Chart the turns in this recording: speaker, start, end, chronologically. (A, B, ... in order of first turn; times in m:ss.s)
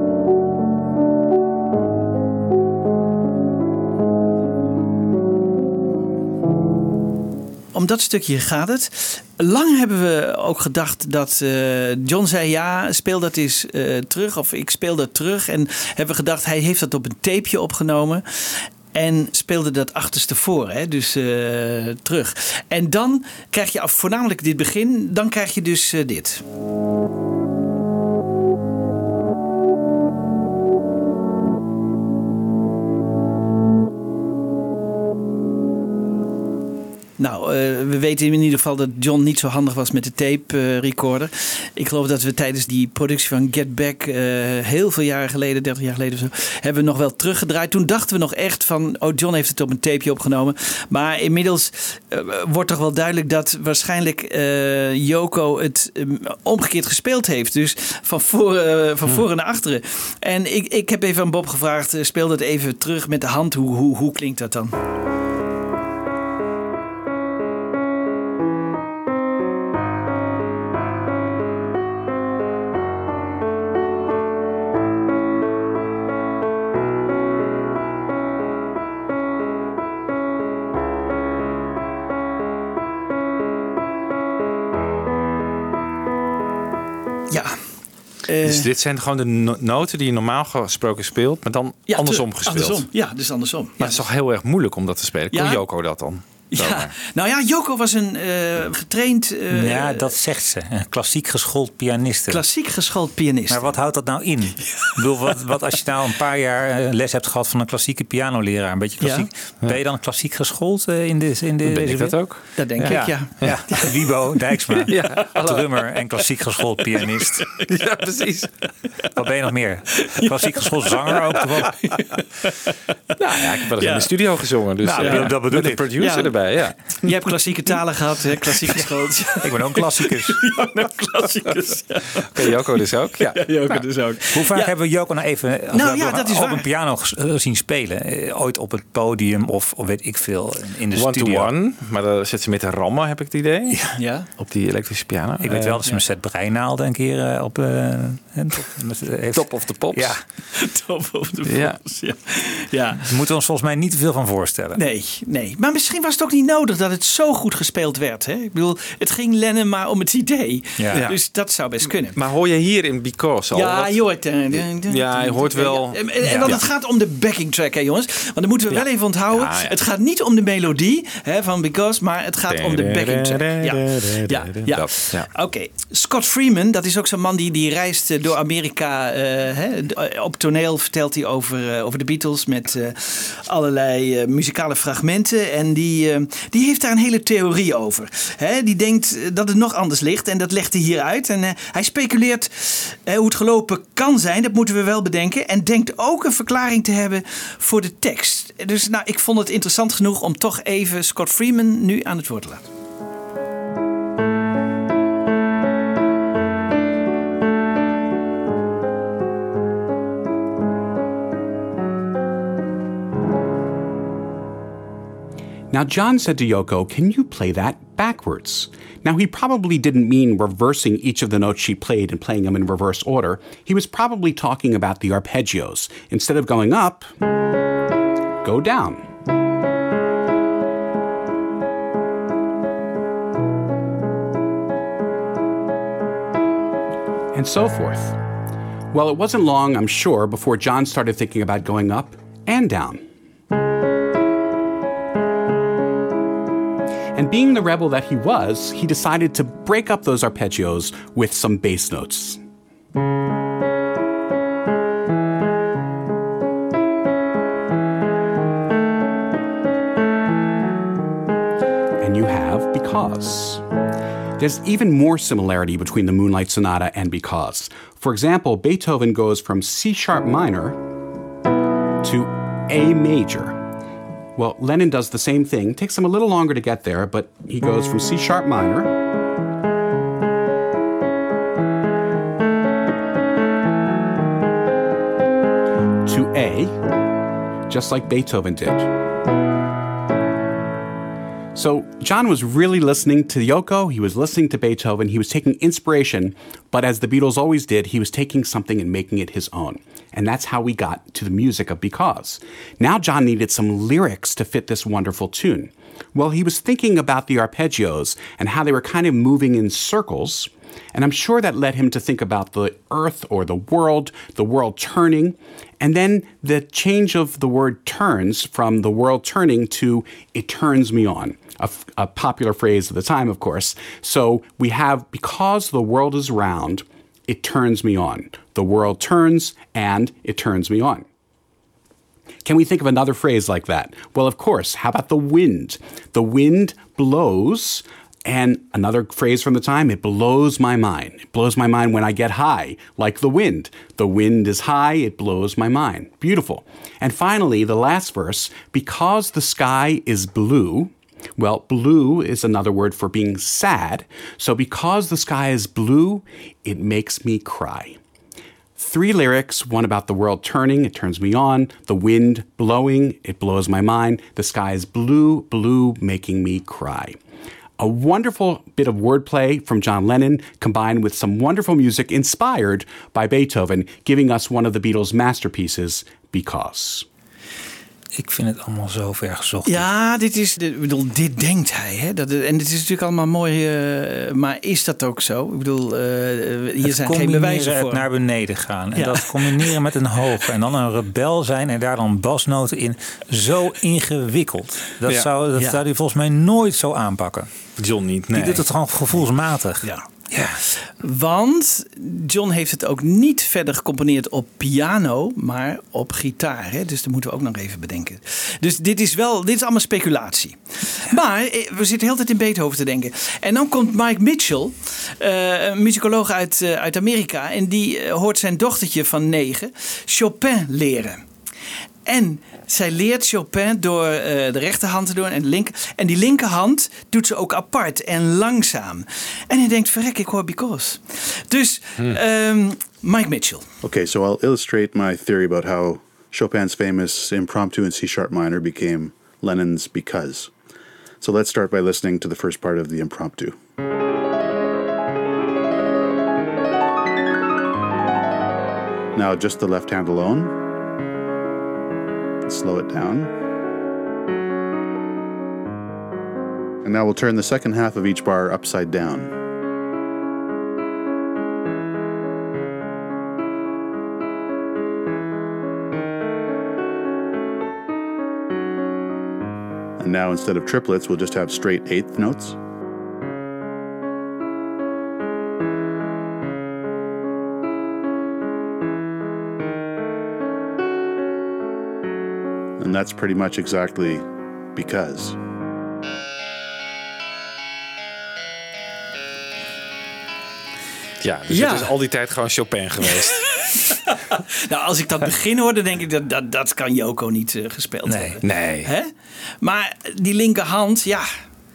0:07.7-0:26.4 A
0:37.2-1:04.7 A
1:27.3-1:27.6 A
1:28.2-1:28.7 A
1:28.4-1:32.9 B
1:31.9-1:34.0 A
1:33.8-1:36.9 B
1:35.3-1:35.6 A
1:36.5-1:40.1 A
1:39.5-1:42.4 C
1:42.3-1:43.8 A
1:43.5-1:57.4 C
1:49.0-1:49.3 A
1:51.6-1:53.6 B
1:52.6-1:54.0 A
1:54.9-1:55.6 B
1:57.7-1:58.5 B
1:59.2-2:01.8 C
2:00.0-2:02.7 A
2:03.2-2:07.1 B
2:03.7-2:04.1 A
2:04.8-2:05.9 C
2:04.9-2:05.3 A
2:06.0-2:06.3 A
2:07.0-2:12.6 A
2:09.4-2:10.4 C
2:12.3-2:13.5 B
2:13.3-2:14.7 A
2:14.3-2:21.5 C
2:15.7-2:16.7 A
2:20.9-2:23.8 B
2:24.0-2:24.3 A
2:24.4-2:25.8 B
2:25.4-2:30.2 C
2:29.3-2:30.1 B
2:30.5-2:33.0 A
2:31.5-2:31.8 B
2:33.0-2:34.8 C
2:34.7-2:42.2 A
2:40.8-2:41.0 C
2:40.9-2:41.2 B
2:42.1-2:44.0 B
2:43.5-3:22.7 A
2:44.5-2:46.6 B
2:46.2-2:46.6 C
2:48.7-2:49.7 B
2:52.5-2:55.3 B
3:35.7-3:47.1 D
3:48.4-3:49.0 D
3:57.3-3:58.2 D
3:58.9-4:03.0 D
4:07.1-4:12.4 D
4:22.0-4:23.6 D
4:24.4-4:30.8 D
4:32.0-4:33.6 D
4:34.4-4:38.9 D
4:46.0-4:46.8 D
4:47.7-4:48.9 D
4:51.5-5:31.1 D
5:32.4-5:58.0 D
5:58.8-6:07.2 D
6:07.8-6:17.1 D
6:18.1-6:19.8 C
6:19.6-6:28.1 A
6:26.8-6:37.5 C
6:28.9-6:29.8 A
6:35.5-6:35.8 A
6:37.8-6:38.6 B
6:38.3-6:40.6 C
6:39.8-6:40.1 A
6:40.6-7:01.2 A
7:02.0-7:13.7 A
7:13.8-7:20.5 E
7:21.2-7:23.6 E
7:29.1-7:30.5 E
7:32.4-7:33.3 E
7:36.8-7:39.3 E
7:50.0-7:52.6 E
8:02.8-8:05.4 E
8:11.2-8:13.5 B
8:11.5-8:11.9 A
8:13.7-8:21.3 A
8:18.0-8:18.4 C
8:18.4-8:18.9 B